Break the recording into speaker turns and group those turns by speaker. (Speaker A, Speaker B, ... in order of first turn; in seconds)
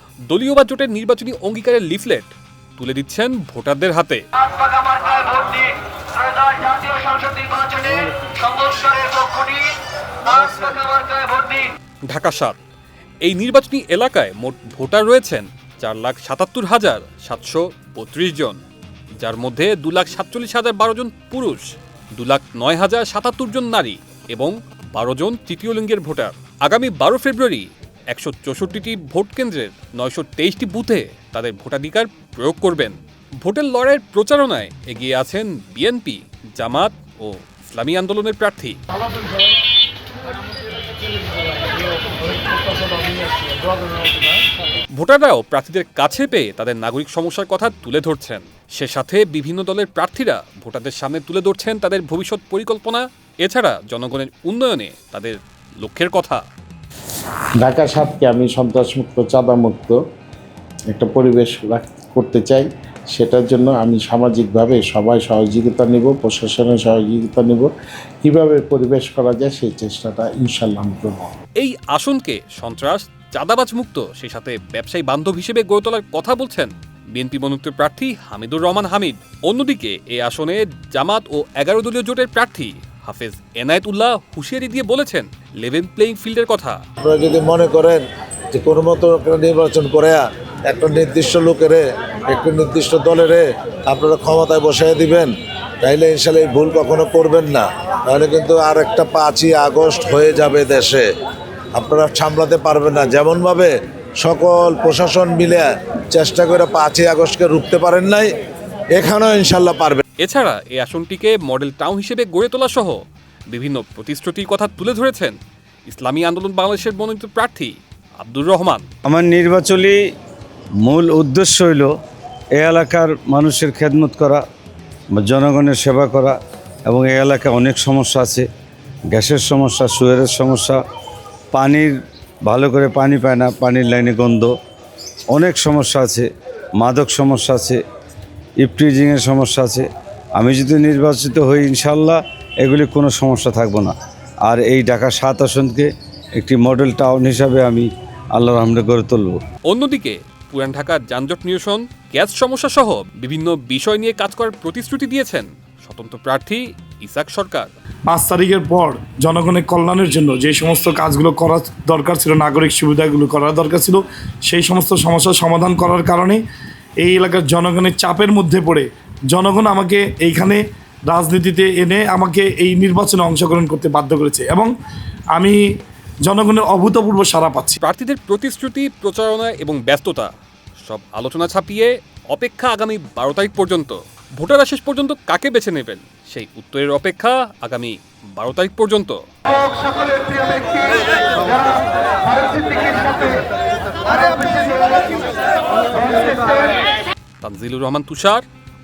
Speaker A: 0.3-4.2, 5.1-5.7, 6.6-8.0, 8.7-9.5, 10.3-11.2, 12.1-12.6, 13.2-18.6, 19.2-38.8, 44.9-56.4, 71.6-86.8, 110.2-113.0, 113.5-115.4, 115.9-118.8, 149.7-157.7, 177.8-180.3, 180.8-190.6, 192.5-193.3, 194.2-194.5, 197.4-198.4
Speaker B: 42.8-44.2, 158.1-166.4, 167.0-174.7, 176.2-177.8
Speaker C: 57.6-60.0, 60.9-67.7, 68.2-71.3
Speaker D: 87.0-88.0, 88.5-95.3, 95.8-101.0, 101.8-108.3, 109.0-110.0
Speaker E: 119.0-120.0, 120.8-121.9, 122.5-124.4, 125.2-126.3, 126.9-128.5, 129.1-130.8, 131.5-131.9, 132.4-134.5, 135.3-137.8, 138.6-143.9, 144.5-149.4